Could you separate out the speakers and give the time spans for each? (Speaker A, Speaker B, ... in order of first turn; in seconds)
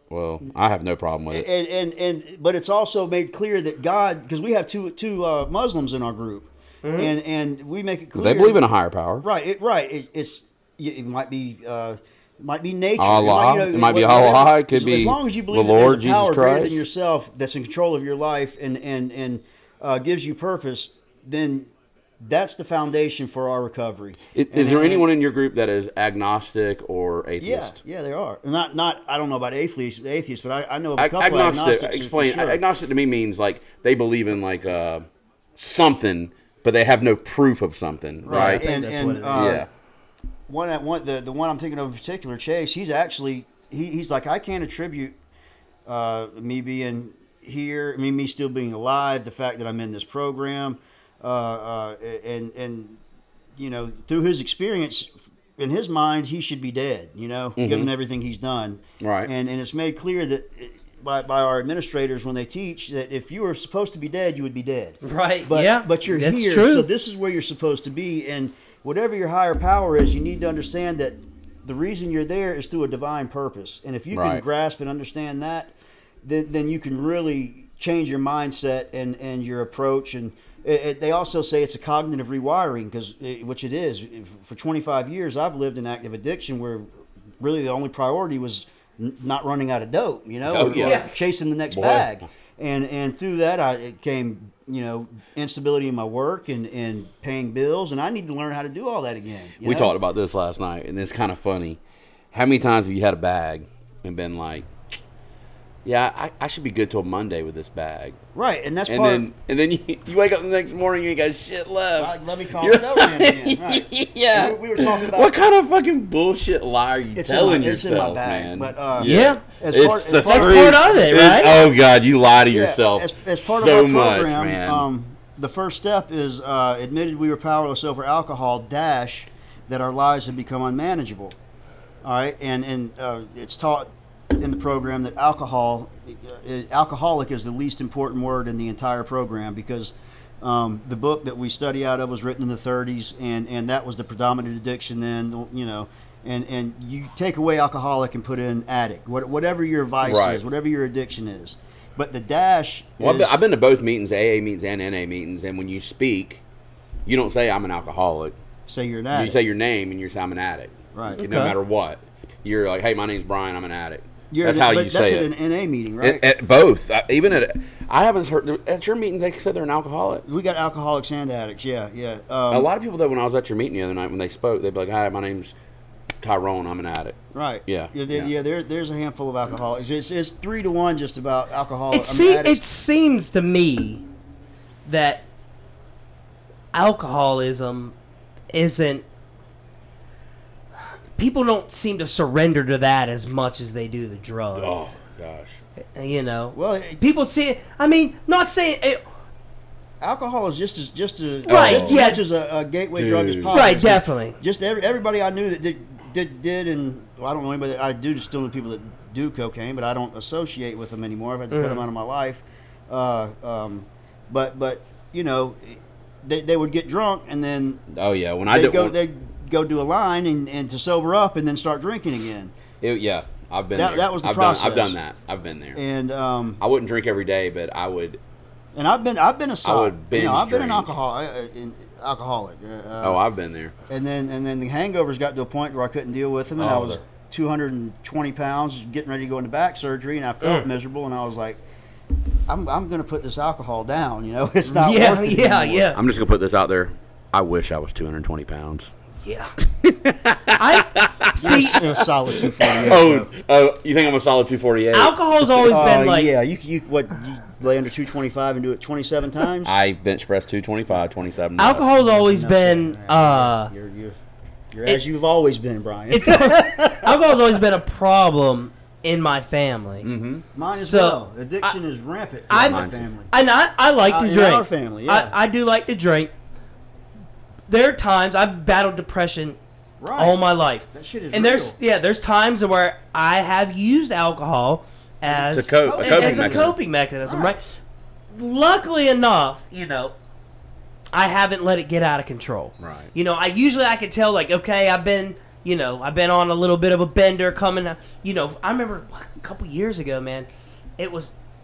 Speaker A: 0.1-1.4, 8.2-9.2, 13.0-16.8, 24.3-27.8, 31.0-35.0, 35.6-38.6, 39.3-39.7, 57.6-57.9, 59.0-59.3, 74.1-74.4, 90.5-91.0, 91.7-92.1, 99.6-101.8, 102.3-104.7, 105.8-108.2, 108.9-124.8, 150.0-150.4, 153.0-156.4, 157.1-158.3, 159.1-165.3, 166.0-170.2, 172.5-175.5, 176.2-178.3, 194.6-195.6, 201.5-202.0, 202.9-203.6, 217.9-218.9, 222.8-225.8, 226.6-228.2, 229.6-230.9, 233.0-233.7, 236.6-237.0, 245.9-248.9, 249.8-256.0, 259.6-261.9, 270.0-270.4, 272.6-273.1, 285.3-286.7, 292.8-293.1
Speaker B: 1.3-8.6, 9.2-25.1, 27.4-32.6, 38.2-39.6, 40.5-45.1, 45.9-53.0, 53.5-75.7, 76.2-86.8, 87.4-100.0, 108.3-109.2, 112.0-115.4, 117.1-121.5, 122.5-131.3, 132.0-153.3, 158.7-159.4, 160.9-161.2, 164.3-166.2, 170.2-172.7, 177.3-182.6, 196.5-197.0, 200.0-217.8, 218.5-222.5, 223.7-225.0, 225.7-226.6, 228.7-233.2, 233.9-241.6, 242.5-245.9, 251.4-253.3, 255.7-259.7, 261.8-264.2, 264.7-267.6, 270.5-273.3, 274.0-275.3, 280.0-280.4, 280.9-281.8, 285.8-286.7, 287.2-287.5
Speaker C: 6.8-7.1, 38.2-39.6, 65.0-66.9, 90.8-91.1, 119.0-119.4, 120.2-121.7, 161.2-161.5, 181.9-184.0, 184.8-185.2, 186.7-187.9, 188.5-189.0, 191.2-194.7, 195.9-199.0, 201.5-202.2, 203.5-204.4, 211.5-211.8, 244.7-246.0, 249.2-249.5, 250.5-251.8, 254.9-256.3, 261.6-263.7, 266.1-270.1, 270.7-271.7, 272.5-276.3, 277.7-279.6, 280.1-287.6, 288.3-290.1, 291.1-301.3